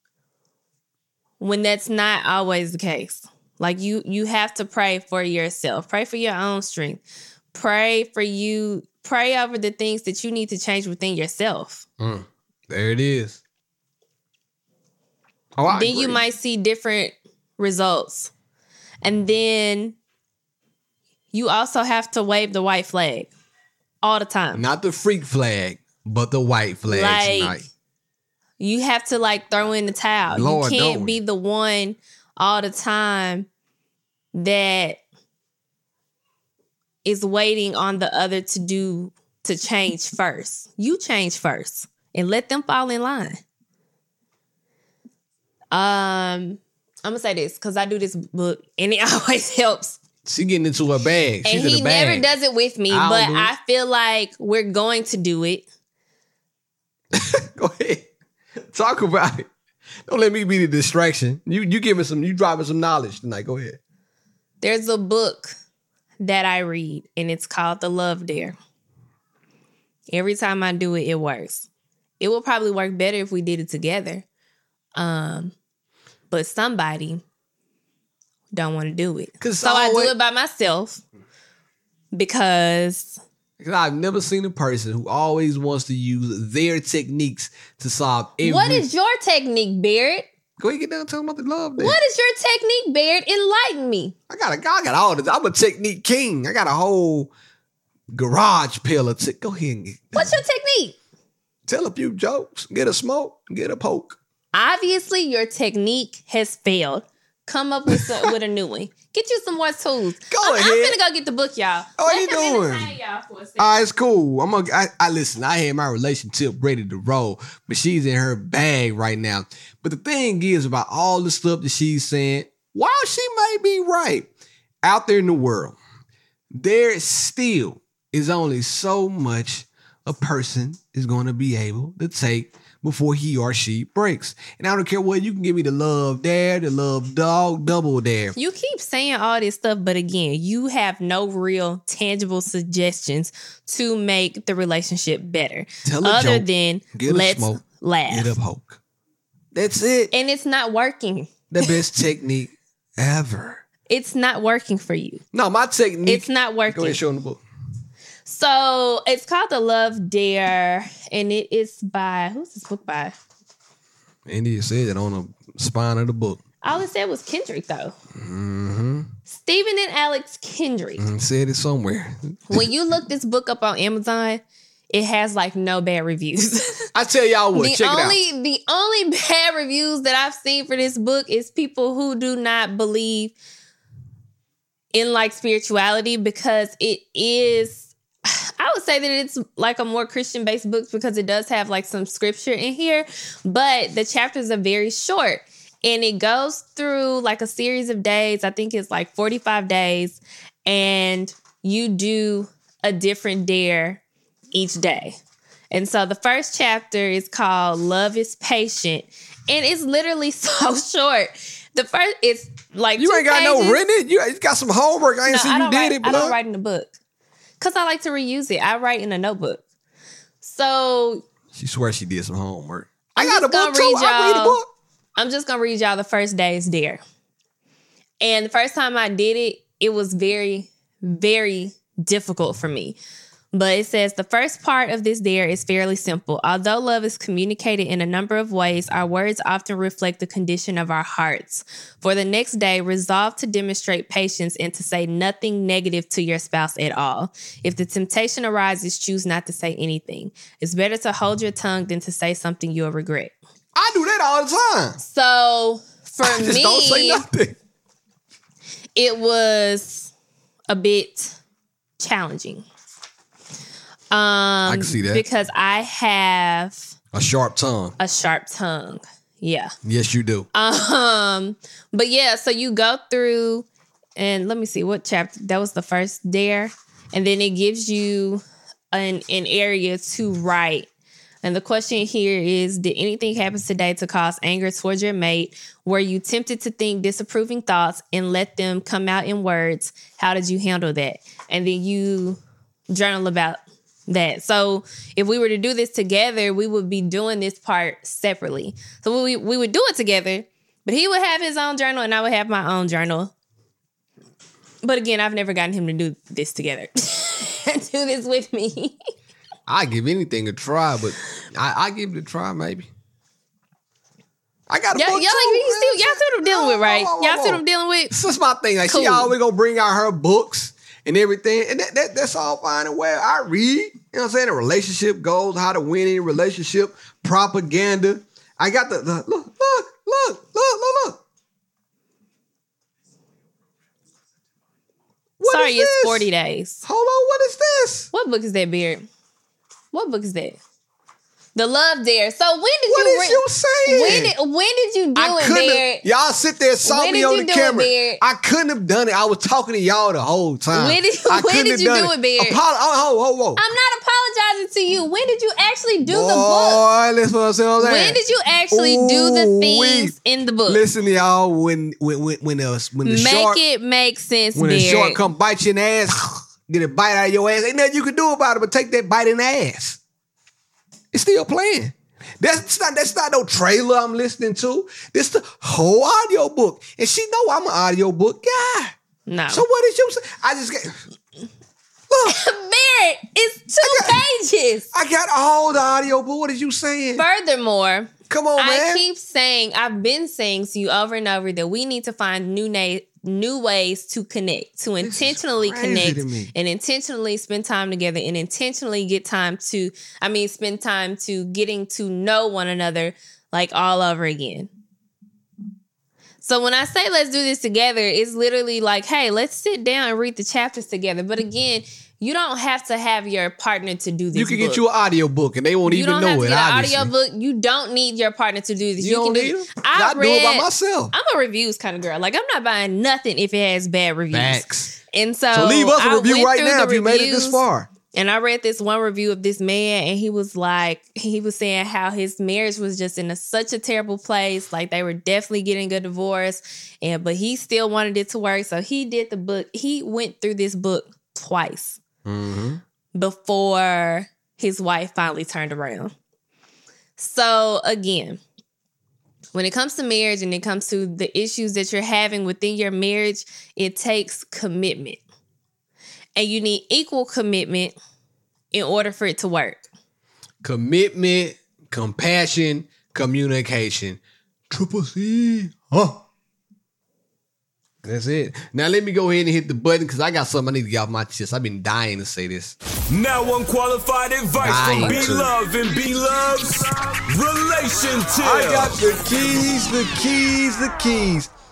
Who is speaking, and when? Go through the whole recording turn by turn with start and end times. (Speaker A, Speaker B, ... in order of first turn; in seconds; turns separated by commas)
Speaker A: 1.4-7.0, Speaker A: 7.5-11.8, Speaker B: 12.0-13.4, Speaker B: 15.6-16.2, Speaker A: 15.7-18.3, Speaker A: 19.0-19.9, Speaker A: 21.3-23.3, Speaker A: 24.0-24.6, Speaker B: 24.5-27.7, Speaker A: 26.9-27.6, Speaker A: 28.6-33.5, Speaker B: 30.3-31.2, Speaker A: 34.3-35.0, Speaker A: 37.0-43.4, Speaker A: 45.7-50.0, Speaker B: 50.2-52.3, Speaker A: 51.4-55.6, Speaker B: 52.9-53.5, Speaker B: 57.1-58.1, Speaker B: 58.6-59.5, Speaker B: 60.1-63.8, Speaker A: 64.6-65.5, Speaker A: 66.2-68.5, Speaker A: 70.1-71.7, Speaker A: 72.2-74.2, Speaker A: 75.0-75.5, Speaker A: 76.3-77.2, Speaker A: 78.5-81.0, Speaker B: 79.4-80.1, Speaker A: 82.1-83.2, Speaker B: 83.6-88.8, Speaker A: 88.4-90.3, Speaker B: 90.6-92.0, Speaker A: 91.8-94.1, Speaker B: 94.3-97.3, Speaker B: 98.1-100.4, Speaker A: 100.1-101.0, Speaker B: 101.7-104.2, Speaker A: 104.5-113.8, Speaker B: 107.9-108.3, Speaker B: 110.3-111.0, Speaker B: 112.0-112.9, Speaker B: 113.6-124.3, Speaker B: 124.8-125.8, Speaker B: 126.5-138.3, Speaker A: 138.3-148.3, Speaker B: 145.8-148.8, Speaker B: 149.5-150.1, Speaker A: 150.1-151.7, Speaker B: 151.5-153.6, Speaker A: 153.9-155.2, Speaker B: 155.3-157.4, Speaker A: 156.1-157.0, Speaker A: 158.2-163.1, Speaker B: 164.2-166.4, Speaker A: 166.6-167.9, Speaker B: 168.2-169.1, Speaker A: 169.3-171.1, Speaker B: 171.0-172.7, Speaker A: 172.5-176.9, Speaker B: 176.9-178.2, Speaker A: 177.5-183.3, Speaker A: 184.9-204.0, Speaker A: 204.5-205.2, Speaker A: 205.7-213.8, Speaker B: 213.0-216.4, Speaker A: 215.3-216.9, Speaker A: 217.6-219.6, Speaker A: 220.4-221.2, Speaker B: 221.5-224.7, Speaker A: 223.2-224.6, Speaker A: 225.2-227.0, Speaker A: 228.2-233.0, Speaker A: 233.5-253.3, Speaker B: 253.7-255.0, Speaker A: 255.0-257.2, Speaker B: 256.2-257.6, Speaker A: 258.9-260.1, Speaker A: 260.7-261.4, Speaker A: 262.0-262.6, Speaker A: 264.1-266.9, Speaker B: 264.6-265.2, Speaker B: 267.1-267.9, Speaker A: 268.0-269.7, Speaker B: 269.8-270.5, Speaker A: 270.5-273.6, Speaker A: 274.2-280.9, Speaker A: 281.4-303.3, Speaker A: 304.8-308.9, Speaker B: 309.7-312.9, Speaker B: 314.7-331.2, Speaker A: 314.9-318.1, Speaker A: 318.9-319.3, Speaker B: 335.4-336.3, Speaker A: 335.4-336.8, Speaker B: 336.8-338.1, Speaker A: 338.1-339.0, Speaker A: 339.9-340.6, Speaker A: 341.5-346.0, Speaker B: 342.9-344.3, Speaker B: 345.1-353.6, Speaker A: 346.9-348.2, Speaker A: 350.7-352.6, Speaker A: 353.6-356.8, Speaker B: 356.1-358.2, Speaker A: 357.8-360.8, Speaker B: 358.7-360.1, Speaker B: 360.7-363.6, Speaker A: 363.0-365.2, Speaker B: 364.5-370.0, Speaker B: 371.1-378.9, Speaker A: 379.3-379.6, Speaker B: 379.5-381.0, Speaker B: 382.1-382.4, Speaker A: 382.2-384.9, Speaker B: 383.8-384.2, Speaker B: 384.9-387.2, Speaker A: 387.1-404.7, Speaker B: 388.3-389.0, Speaker B: 395.0-396.5, Speaker A: 406.4-414.8, Speaker B: 414.3-417.1, Speaker A: 415.9-427.6, Speaker B: 419.0-421.1, Speaker B: 424.3-424.9, Speaker B: 425.5-427.9, Speaker A: 428.1-442.0, Speaker B: 442.2-442.8, Speaker A: 443.1-446.1, Speaker A: 447.2-448.4, Speaker A: 449.5-455.2, Speaker A: 456.4-457.9, Speaker A: 458.7-459.8, Speaker B: 460.6-466.2, Speaker B: 468.0-472.8, Speaker C: 473.1-479.0, Speaker B: 474.6-475.5, Speaker A: 474.8-475.2, Speaker B: 478.4-481.5